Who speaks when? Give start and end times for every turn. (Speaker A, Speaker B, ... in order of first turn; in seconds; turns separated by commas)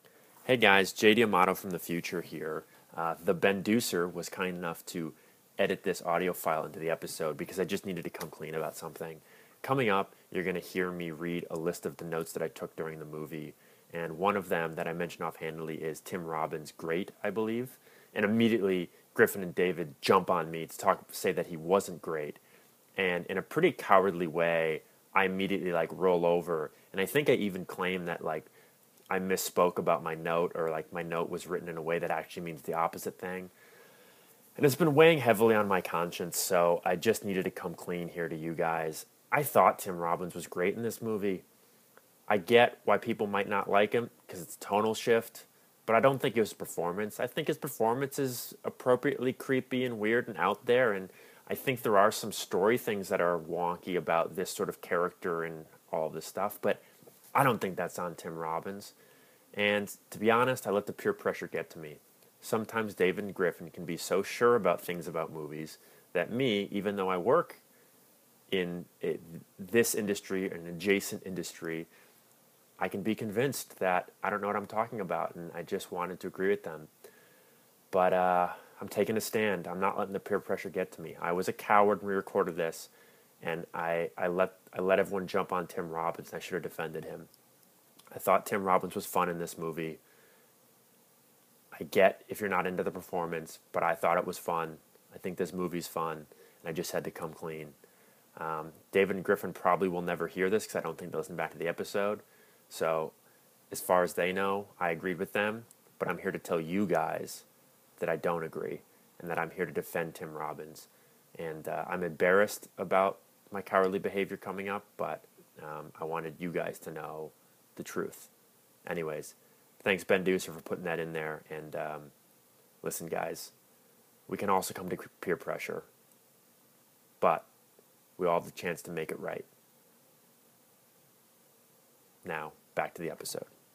Speaker A: 0.5-22.4, Speaker A: 23.0-28.5, Speaker A: 29.1-33.5, Speaker A: 34.6-41.4, Speaker A: 42.3-58.9, Speaker A: 59.5-67.6, Speaker A: 68.5-71.9, Speaker A: 72.8-76.9, Speaker A: 77.9-82.9, Speaker A: 83.4-87.3, Speaker A: 88.1-90.0, Speaker A: 91.7-97.8, Speaker A: 98.4-103.1, Speaker A: 103.7-107.4, Speaker A: 108.0-118.3, Speaker A: 118.8-122.1, Speaker A: 122.8-123.5, Speaker A: 124.3-125.9, Speaker A: 127.2-127.5, Speaker A: 128.2-129.5, Speaker A: 132.2-133.5